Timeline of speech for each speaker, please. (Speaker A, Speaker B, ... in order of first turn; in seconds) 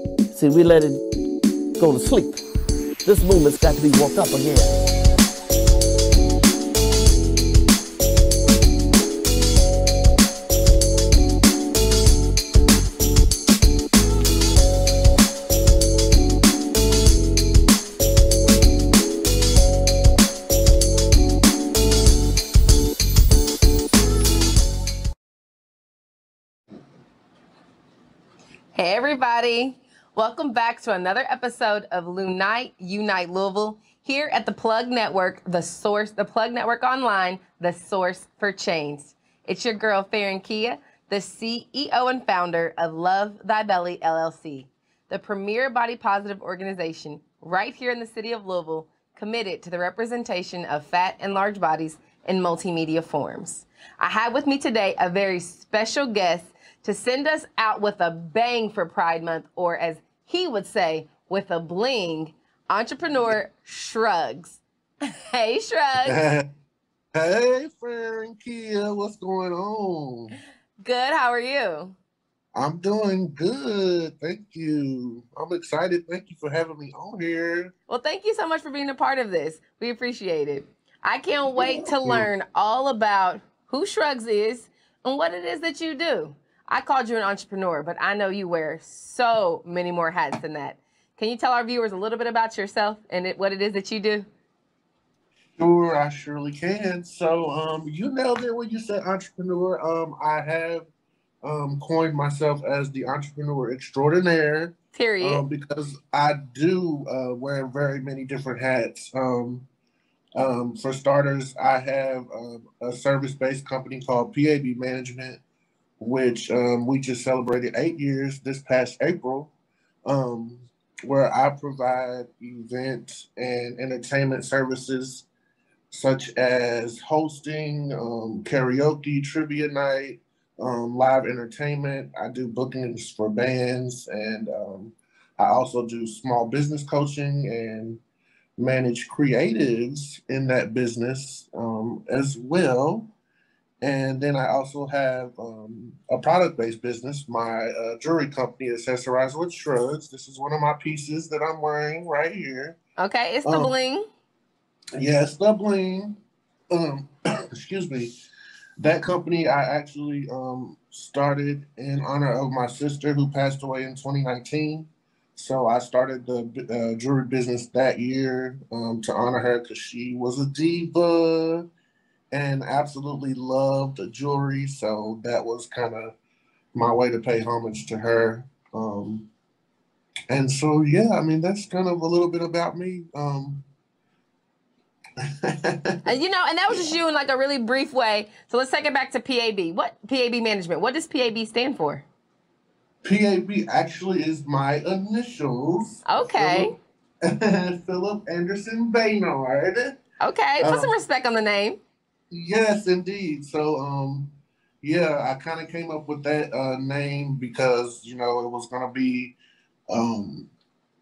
Speaker A: 0.3-1.0, 1.8-2.4, 3.0-4.8
Speaker B: 28.7-66.2, 70.8-72.0, 77.9-94.3, 105.0-105.4, 153.0-154.1, 186.0-192.0, 196.1-196.7, 200.2-201.8
Speaker C: 66.0-66.5, 67.1-70.4, 72.5-77.7, 81.5-82.3, 95.6-100.9, 101.4-109.7, 110.4-115.4, 116.0-119.5, 120.0-125.3, 125.9-138.0, 138.6-143.1, 143.8-152.8, 153.4-153.7, 154.9-156.2, 156.7-158.1, 158.8-171.7, 172.3-176.1, 176.7-179.3, 180.3-183.7, 185.2-186.1, 193.0-200.0, 200.6-200.9, 202.3-209.3, 209.9-210.5